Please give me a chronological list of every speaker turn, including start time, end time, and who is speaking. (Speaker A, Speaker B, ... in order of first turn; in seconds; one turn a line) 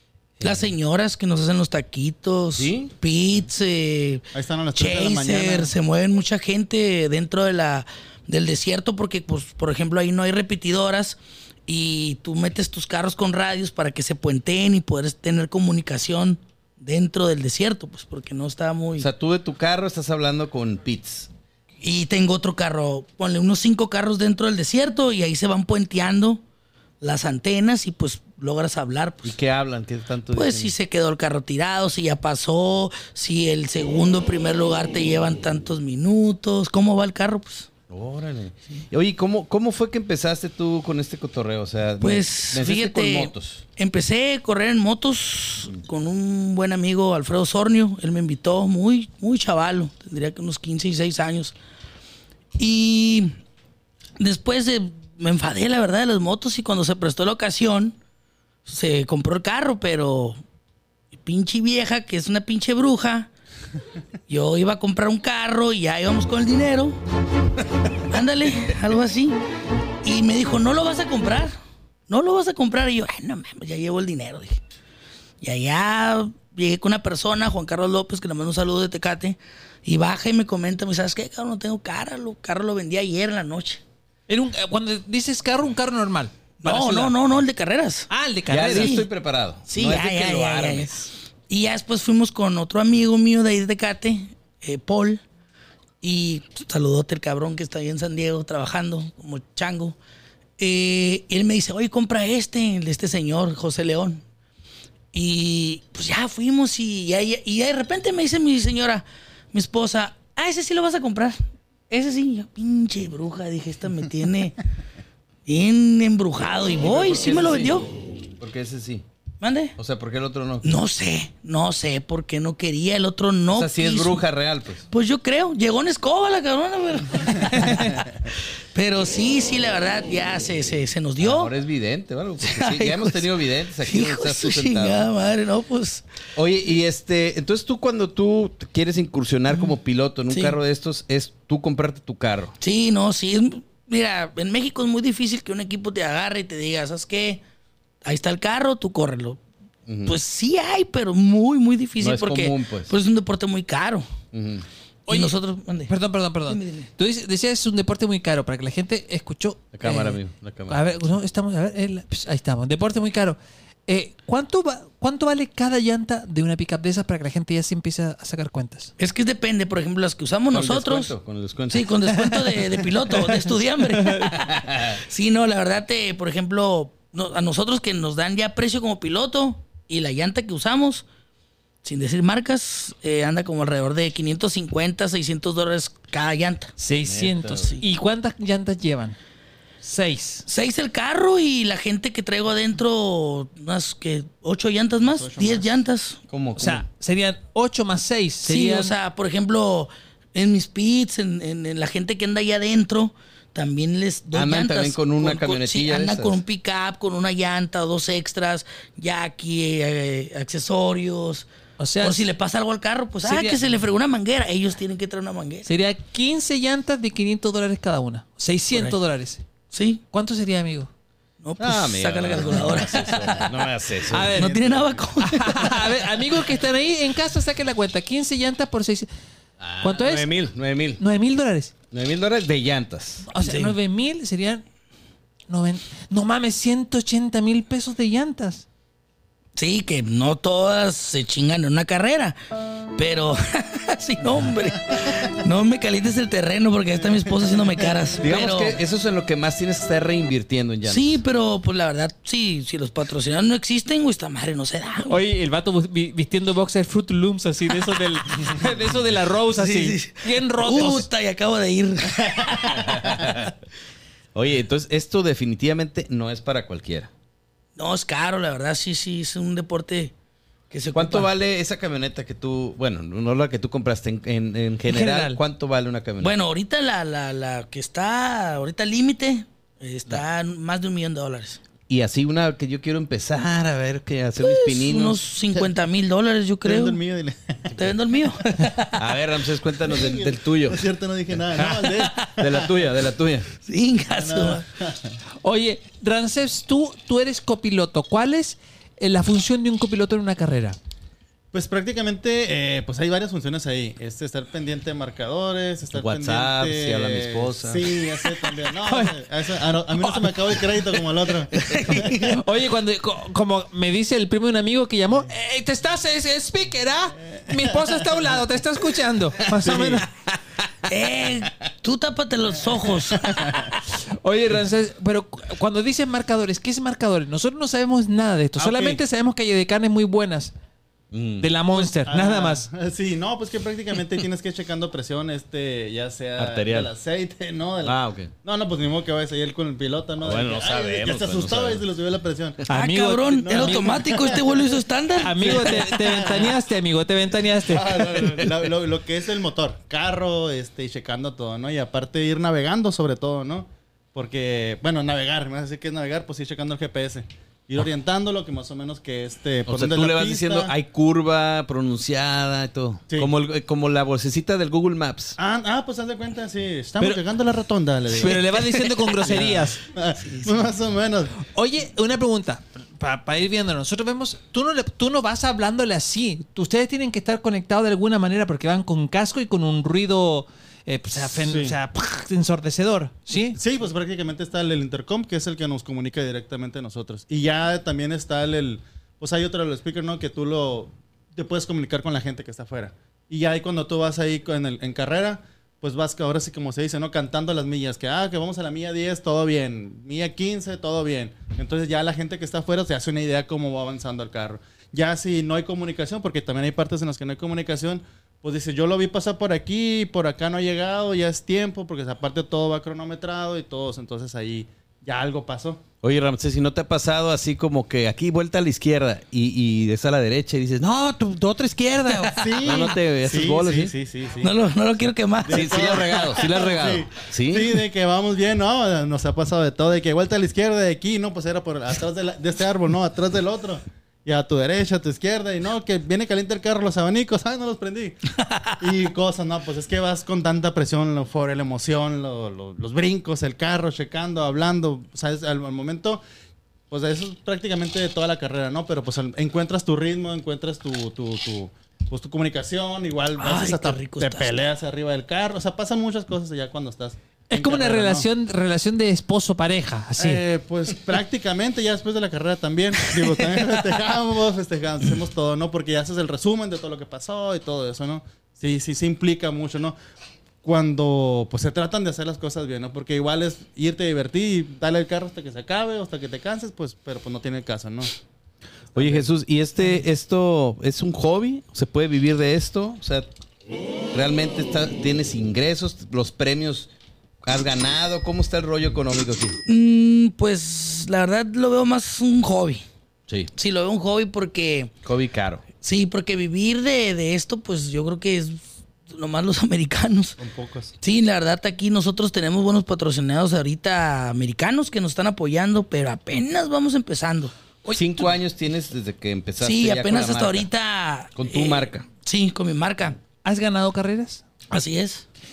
Speaker A: 0.4-19.1
Speaker B: 2.6-2.9
Speaker C: 4.3-5.7
Speaker B: 19.0-21.3
Speaker A: 21.8-26.4
Speaker A: 27.0-29.4
Speaker B: 29.2-30.8
Speaker A: 30.3-37.7
Speaker B: 37.9-43.6
Speaker A: 42.0-51.5
Speaker A: 52.6-53.4
Speaker A: 54.2-58.0
Speaker A: 58.6-60.4
Speaker A: 61.2-63.3
Speaker A: 64.3-67.0
Speaker A: 68.0-69.4
Speaker A: 70.0-71.6
Speaker A: 72.1-74.6
Speaker A: 75.4-83.8
Speaker D: 84.3-87.2
Speaker A: 86.6-88.1
Speaker D: 88.1-89.0
Speaker B: 88.5-91.1
Speaker A: 88.6-89.1
Speaker A: 89.7-95.2
Speaker A: 96.0-100.0
Speaker A: 100.6-104.2
Speaker A: 105.1-114.6
Speaker A: 115.5-117.9
Speaker B: 116.8-117.8
Speaker B: 118.4-119.0
Speaker A: 119.4-119.8
Speaker B: 119.8-120.7
Speaker A: 120.6-124.2
Speaker B: 123.5-124.9
Speaker A: 124.9-131.5
Speaker B: 131.2-135.1
Speaker A: 132.4-133.2
Speaker A: 133.8-136.0
Speaker B: 136.4-142.6
Speaker A: 140.3-140.6
Speaker A: 142.6-147.4
Speaker A: 148.0-149.4
Speaker B: 149.9-150.2
Speaker A: 150.1-154.1
Speaker B: 152.0-152.9
Speaker B: 154.3-154.7
Speaker A: 155.1-155.9
Speaker D: 155.1-155.3
Speaker D: 155.9-159.9
Speaker A: 156.4-156.9
Speaker B: 159.7-160.8
Speaker A: 159.8-160.1
Speaker D: 160.7-168.9
Speaker A: 169.0-171.1
Speaker B: 170.5-172.1
Speaker A: 171.7-181.1
Speaker D: 174.0-174.3
Speaker B: 174.3-175.0
Speaker A: 181.8-186.7
Speaker D: 186.8-189.2
Speaker B: 187.0-187.8
Speaker D: 189.8-190.4
Speaker A: 190.5-196.2
Speaker C: 195.0-195.7
Speaker B: 196.3-196.8
Speaker D: 196.6-198.9
Speaker A: 198.4-211.5
Speaker B: 204.3-206.4
Speaker D: 211.8-212.3
Speaker A: 212.0-215.7
Speaker D: 213.2-213.6
Speaker D: 215.7-219.4
Speaker A: 218.7-219.0
Speaker A: 219.7-220.0
Speaker D: 220.1-220.9
Speaker A: 221.4-223.5
Speaker B: 221.6-224.4
Speaker D: 224.1-224.6
Speaker C: 224.3-225.1
Speaker A: 224.4-226.0
Speaker D: 225.2-229.1
Speaker B: 229.6-231.0
Speaker D: 229.8-230.3
Speaker D: 231.0-231.7
Speaker B: 231.9-233.3
Speaker D: 233.3-234.6
Speaker A: 233.4-233.8
Speaker D: 235.5-238.7
Speaker A: 239.6-242.4
Speaker A: 243.0-248.8
Speaker B: 248.2-251.2
Speaker A: 250.9-255.2
Speaker D: 255.1-261.1
Speaker A: 259.5-263.1
Speaker B: 262.7-263.5
Speaker B: 264.4-267.1
Speaker A: 267.8-270.1
Speaker A: 270.7-271.3
Speaker B: 270.9-276.4
Speaker D: 274.9-275.4
Speaker A: 276.2-281.6
Speaker B: 281.9-285.2
Speaker A: 284.4-287.0
Speaker C: 286.6-288.7
Speaker A: 287.7-289.0
Speaker B: 288.9-290.9
Speaker C: 289.8-292.8
Speaker D: 291.5-291.9
Speaker A: 292.0-292.4
Speaker B: 292.4-293.5
Speaker A: 293.6-294.7
Speaker C: 294.1-295.2
Speaker D: 295.4-300.8
Speaker C: 301.5-312.3
Speaker B: 305.9-307.9
Speaker D: 308.2-309.2
Speaker D: 309.9-311.0
Speaker A: 311.6-312.4
Speaker D: 311.9-320.1
Speaker C: 319.6-320.0
Speaker A: 320.9-323.8
Speaker D: 324.2-330.5
Speaker C: 328.6-329.0
Speaker B: 331.1-331.5
Speaker D: 331.4-332.7
Speaker C: 331.7-342.6
Speaker B: 336.4-336.9
Speaker B: 337.8-338.3
Speaker B: 340.2-341.8
Speaker D: 342.7-344.4
Speaker A: 342.7-345.8
Speaker C: 343.4-344.8
Speaker D: 345.2-348.2
Speaker C: 345.4-346.6
Speaker C: 347.6-360.7
Speaker B: 359.7-365.4
Speaker C: 365.4-371.4
Speaker D: 368.1-369.8
Speaker D: 371.5-383.6
Speaker C: 381.2-381.8
Speaker C: 383.6-415.8
Speaker B: 416.0-423.9
Speaker A: 422.1-422.5
Speaker C: 422.4-424.5
Speaker A: 424.4-426.2
Speaker C: 425.4-446.2
Speaker B: 425.5-427.8
Speaker C: 446.9-458.3
Speaker A: 453.4-454.5
Speaker D: 457.5-460.4
Speaker C: 460.2-470.0
Speaker C: 470.6-478.2
Speaker C: 478.9-479.3
Speaker B: 478.9-483.3
Speaker B: 484.1-486.9
Speaker B: 487.4-489.6
Speaker A: 489.7-492.9
Speaker A: 493.6-494.9
Speaker B: 495.0-495.6
Speaker A: 495.8-500.4
Speaker C: 500.4-500.9
Speaker A: 501.0-508.3
Speaker B: 507.9-510.7
Speaker A: 509.6-513.2
Speaker B: 511.4-512.1
Speaker D: 513.4-514.4
Speaker A: 514.7-515.2